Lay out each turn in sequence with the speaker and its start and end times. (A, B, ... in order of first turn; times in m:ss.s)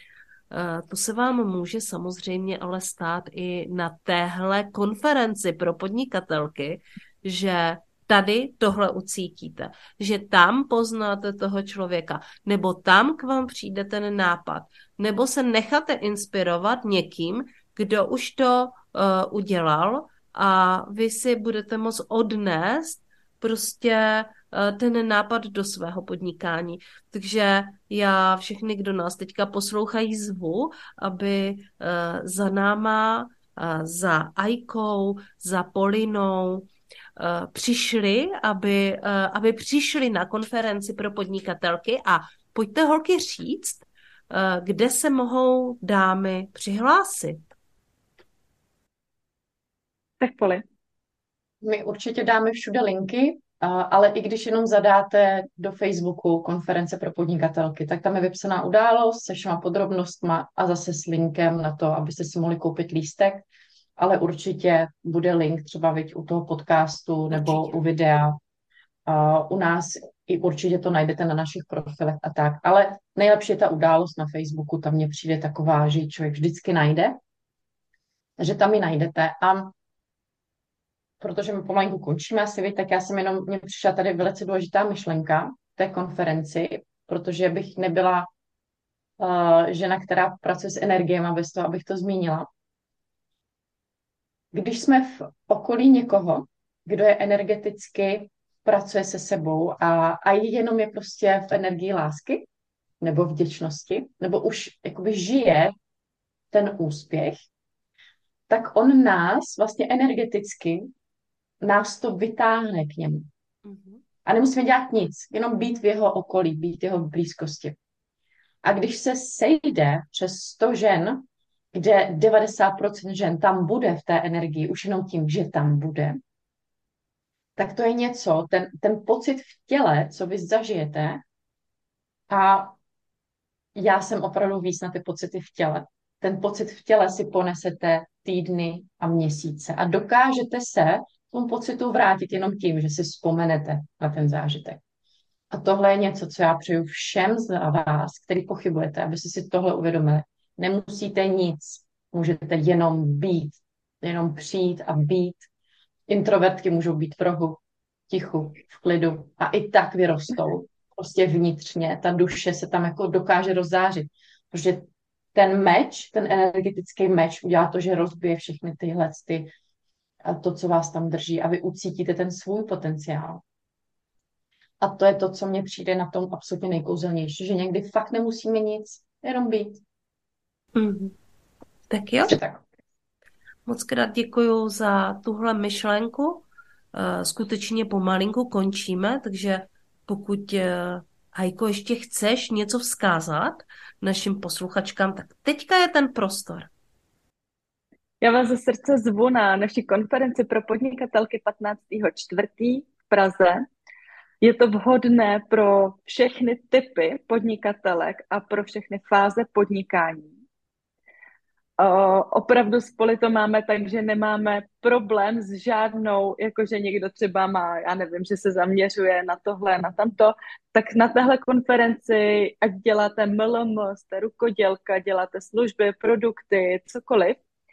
0:00.5-0:47.5 A
0:50.2-0:50.6 B
0:51.6-1:03.4 C
1:04.0-1:08.4 C
1:07.3-1:07.8 A
1:09.1-1:17.2 C
1:18.4-1:19.7 C
1:21.2-1:28.3 C
1:29.2-1:32.5 C
1:34.5-1:42.5 C
1:43.0-1:45.7 C
1:46.5-1:47.4 C
1:48.5-1:50.9 C
1:51.6-1:53.3 C
1:53.6-1:54.0 A
1:54.2-1:57.8 C
1:58.6-2:06.2 C
2:07.6-2:11.2 C
2:12.3-2:12.8 C
2:13.8-2:24.8 C
2:25.5-2:35.5 C
2:36.1-2:49.5 C
2:50.2-2:53.4 C
2:54.8-2:59.8 C
3:00.8-3:01.2 A
3:01.9-3:02.4 A
3:02.2-3:02.6 C
3:03.7-3:16.7 A
3:18.2-3:23.6 B
3:24.4-3:30.4 B
3:31.8-3:47.4 B